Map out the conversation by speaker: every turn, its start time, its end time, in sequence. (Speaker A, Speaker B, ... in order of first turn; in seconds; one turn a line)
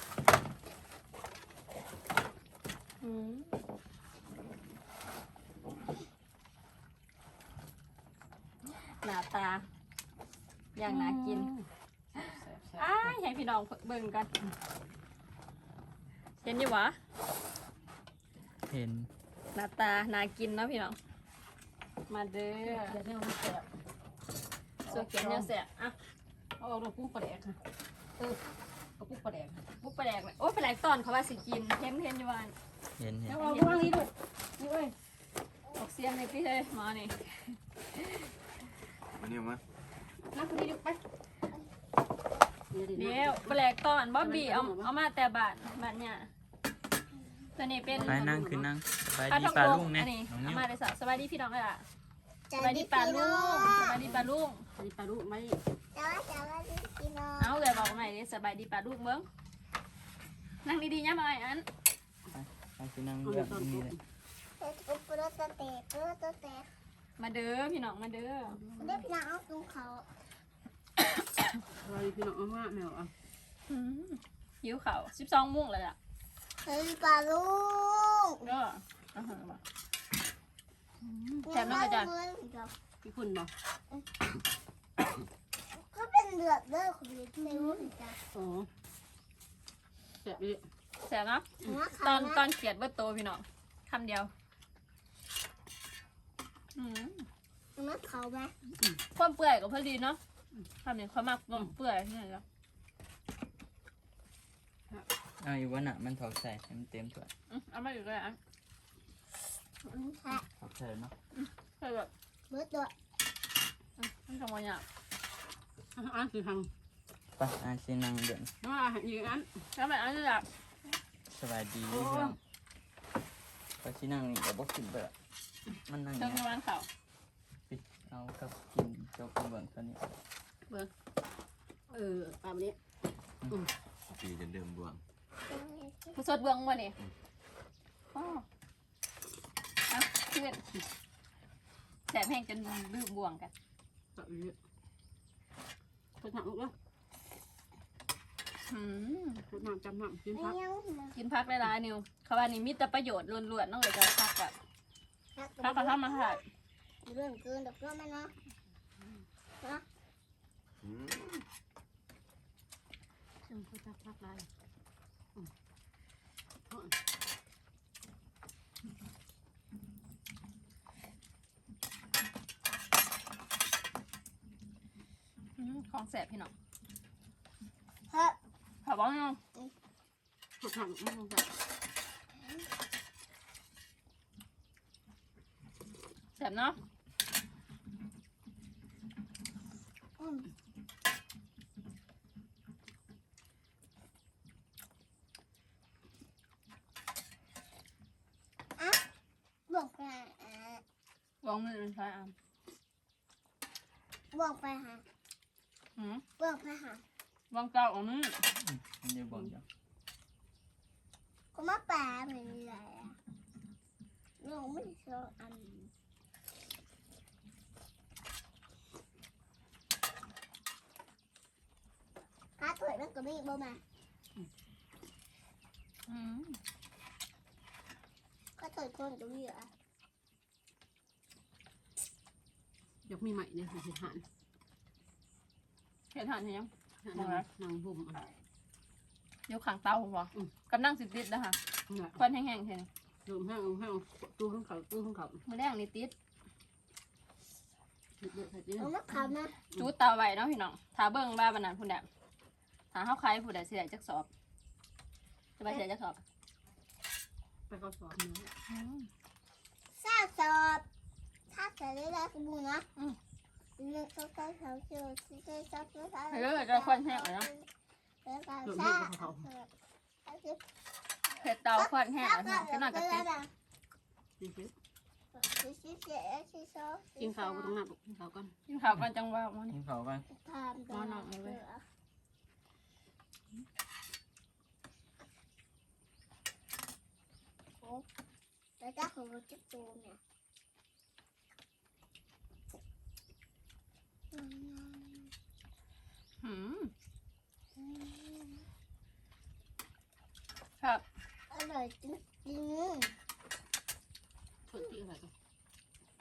Speaker A: 3.0-3.5
Speaker A: 8.8-9.6
Speaker A: 10.7-11.5
Speaker B: 10.8-12.9
Speaker A: 12.2-14.3
Speaker A: 16.4-17.0
Speaker C: 18.7-19.1
Speaker A: 19.5-21.0
Speaker A: 22.1-23.0
Speaker B: 22.6-23.7
Speaker B: 24.8-25.5
Speaker A: 24.9-25.9
Speaker B: 26.6-27.6
Speaker B: 29.0-29.6
Speaker A: 29.8-32.5
Speaker C: 33.0-33.4
Speaker B: 33.2-34.9
Speaker A: 33.4-34.0
Speaker A: 35.7-38.3
Speaker D: 39.2-39.6
Speaker B: 40.2-41.0
Speaker B: 42.7-43.5
Speaker A: 43.0-46.3
Speaker B: 44.2-44.9
Speaker A: 47.5-48.3
Speaker B: 47.9-48.7
Speaker C: 48.0-50.6
Speaker A: 49.3-51.8
Speaker E: 52.5-54.0
Speaker A: 52.6-54.6
Speaker B: 54.0-55.6
Speaker E: 55.9-58.0
Speaker A: 57.4-59.3
Speaker A: 60.6-61.6
Speaker C: 62.3-63.9
Speaker B: 63.2-64.0
Speaker E: 64.6-66.7
Speaker A: 67.2-68.6
Speaker B: 68.5-69.1
Speaker E: 68.8-70.0
Speaker B: 71.7-73.1
Speaker A: 73.7-76.0
Speaker E: 76.6-78.5
Speaker A: 78.4-79.6
Speaker B: 81.0-81.8
Speaker A: 81.4-82.1
Speaker E: 81.5-82.7
Speaker B: 83.0-83.5
Speaker E: 85.7-88.2
Speaker A: 87.4-87.9
Speaker B: 88.3-88.7
Speaker B: 90.2-90.6
Speaker A: 91.0-94.3
Speaker E: 91.6-92.4
Speaker A: 96.7-97.2
Speaker E: 97.8-98.5
Speaker A: 99.1-100.2
Speaker A: 100.8-102.4
Speaker C: 105.4-107.3
Speaker A: 107.5-108.4
Speaker E: 109.8-110.4
Speaker C: 110.6-111.1
Speaker A: 111.3-112.1
Speaker E: 112.5-112.9
Speaker A: 114.0-114.8
Speaker B: 115.9-116.7
Speaker C: 117.3-118.5
Speaker B: 118.6-119.7
Speaker A: 119.7-120.5
Speaker C: 121.3-122.4
Speaker B: 121.8-122.3
Speaker C: 123.8-125.1
Speaker C: 125.8-126.4
Speaker A: 126.2-126.9
Speaker C: 127.7-130.1
Speaker B: 131.9-132.8
Speaker D: 134.1-135.0
Speaker E: 135.4-136.2
Speaker A: 136.1-136.9
Speaker A: 138.1-138.4
Speaker A: 139.9-140.6
Speaker A: 142.1-143.5
Speaker B: 144.2-144.6
Speaker B: 146.2-146.7
Speaker A: 148.6-149.4
Speaker B: 149.5-150.6
Speaker E: 150.3-151.2
Speaker A: 151.1-154.5
Speaker E: 155.3-156.4
Speaker A: 155.6-156.4
Speaker E: 157.0-158.3
Speaker D: 160.8-161.3
Speaker B: 163.4-164.5
Speaker B: 166.7-166.9
Speaker A: 175.6-176.5
Speaker E: 178.1-178.4
Speaker A: 178.8-179.4
Speaker B: 180.6-181.5
Speaker A: 186.4-186.8
Speaker E: 190.2-190.5
Speaker E: 199.7-200.8
Speaker A: 201.4-202.3
Speaker E: 204.3-205.0
Speaker A: 206.0-206.2
Speaker E: 206.4-207.0
Speaker A: 207.5-208.4
Speaker C: 208.6-209.6
Speaker E: 211.5-213.2
Speaker E: 214.4-215.9
Speaker E: 222.6-223.8
Speaker A: 226.1-226.6
Speaker E: 228.6-229.7
Speaker B: 233.0-234.2
Speaker A: 236.1-237.4
Speaker B: 237.0-238.2
Speaker A: 239.5-241.6
Speaker B: 241.9-242.2
Speaker A: 242.2-242.9
Speaker B: 243.2-245.4
Speaker A: 245.4-246.1
Speaker B: 248.2-248.9
Speaker E: 248.8-249.5
Speaker A: 249.7-252.1
Speaker A: 252.9-254.3
Speaker A: 255.6-256.2
Speaker B: 257.7-258.5
Speaker A: 258.7-259.1
Speaker E: 259.9-260.8
Speaker E: 261.5-262.9
Speaker E: 263.8-267.7
Speaker A: 266.3-267.5
Speaker E: 268.2-269.7
Speaker B: 268.6-269.5
Speaker E: 270.2-270.6
Speaker A: 271.4-273.3
Speaker E: 271.8-273.5
Speaker B: 274.4-274.7
Speaker E: 275.3-277.8
Speaker B: 277.2-278.5
Speaker A: 278.7-279.7
Speaker C: 279.7-280.2
Speaker E: 280.3-281.8
Speaker B: 280.9-281.6
Speaker A: 281.0-281.3
Speaker E: 288.8-290.2
Speaker E: 294.3-295.3
Speaker A: 296.4-296.9
Speaker E: 297.8-298.6
Speaker A: 300.8-301.0
Speaker E: 301.5-303.1
Speaker B: 304.7-305.3